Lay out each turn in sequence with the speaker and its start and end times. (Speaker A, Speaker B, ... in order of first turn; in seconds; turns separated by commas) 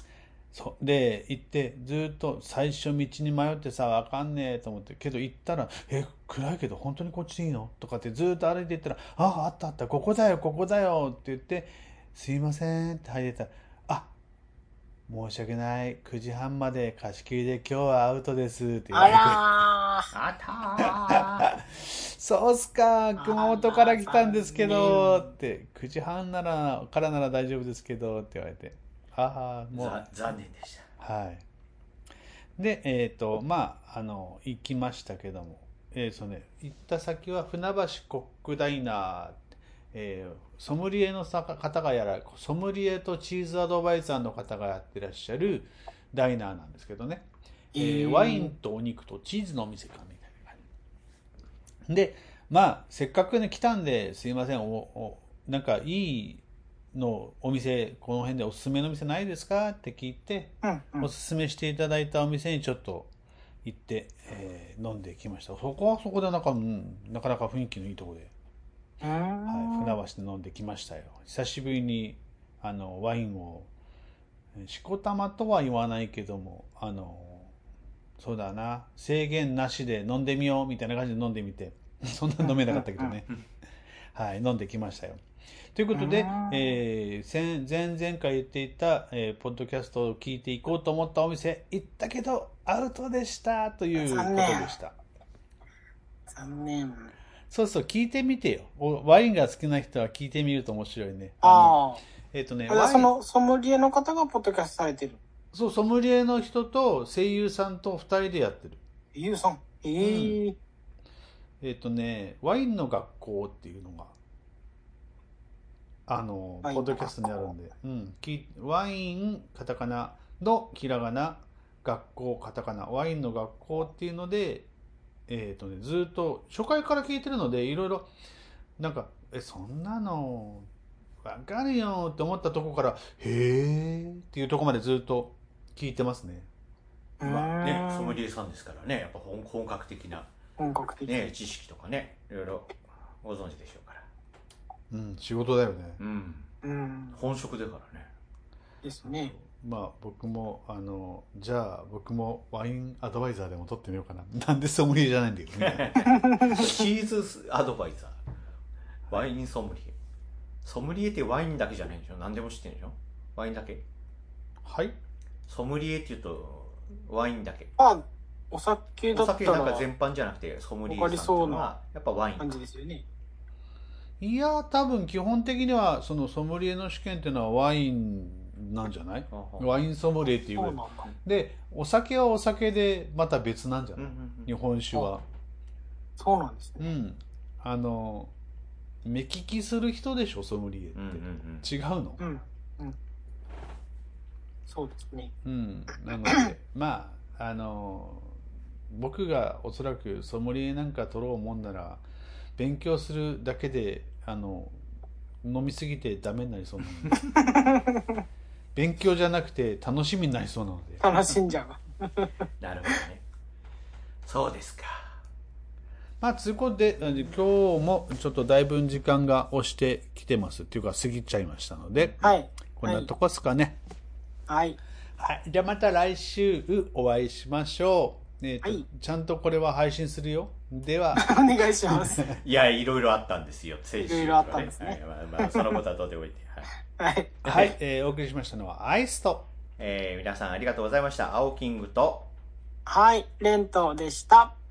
Speaker A: 0.5-14.1, Speaker A: 15.1-19.5, Speaker B: 18.9-20.1, Speaker C: 20.1-21.5, Speaker A: 20.8-30.0, Speaker B: 23.2-25.2, Speaker C: 29.7-30.9, Speaker A: 31.0-31.4, Speaker A: 32.6-50.6, Speaker B: 47.7-48.5, Speaker A: 51.9-63.1, Speaker B: 60.6-61.1, Speaker A: 63.6-68.3, Speaker B: 69.0-70.0, Speaker A: 69.5-73.7, Speaker A: 74.5-77.5, Speaker A: 78.2-83.3, Speaker B: 82.4-83.2, Speaker A: 84.1-85.2, Speaker A: 85.7-95.0, Speaker B: 85.9-86.8, Speaker B: 94.0-94.7, Speaker B: 96.3-97.1, Speaker A: 97.5-101.8, Speaker B: 101.4-102.0, Speaker A: 102.3-103.1, Speaker B: 102.7-105.2, Speaker A: 105.5-108.8, Speaker B: 109.2-110.6, Speaker A: 110.0-110.4, Speaker A: 111.6-114.2, Speaker A: 116.1-124.7, Speaker B: 116.6-117.1, Speaker A: 125.3-128.1, Speaker A: 128.8-130.7, Speaker A: 131.2-136.5, Speaker B: 137.2-138.2, Speaker C: 137.2-140.3, Speaker B: 140.6-141.2, Speaker C: 141.1-144.1, Speaker A: 144.9-146.0, Speaker C: 146.0-146.5, Speaker B: 146.6-147.2, Speaker C: 147.2-148.1, Speaker B: 148.8-149.3, Speaker A: 149.0-156.0, Speaker C: 155.6-158.2, Speaker B: 156.1-156.7, Speaker C: 159.1-159.9, Speaker C: 160.6-163.8, Speaker A: 164.6-165.0, Speaker C: 165.5-167.7, Speaker B: 167.8-169.9, Speaker C: 169.1-172.5, Speaker B: 170.9-171.7, Speaker B: 172.4-173.1, Speaker A: 174.2-185.2, Speaker C: 179.3-179.8, Speaker B: 180.6-181.1, Speaker C: 184.0-184.5, Speaker B: 186.2-186.9, Speaker A: 186.8-188.3, Speaker A: 189.0-192.2, Speaker C: 190.9-191.7, Speaker B: 192.2-193.0, Speaker B: 194.7-195.3, Speaker A: 195.4-198.4, Speaker A: 198.9-202.0, Speaker A: 202.6-204.8, Speaker A: 205.4-207.2, Speaker B: 207.4-208.2, Speaker A: 208.8-211.1, Speaker B: 211.0-213.0, Speaker C: 212.6-213.2, Speaker C: 214.2-215.1, Speaker A: 216.2-223.8, Speaker B: 222.2-223.1, Speaker B: 224.5-224.8, Speaker A: 225.2-232.4, Speaker B: 231.2-232.3, Speaker C: 232.3-236.7, Speaker B: 234.0-235.6, Speaker B: 237.0-237.3, Speaker C: 237.4-237.8, Speaker A: 237.4-239.5, Speaker C: 239.8-242.3, Speaker B: 242.9-244.6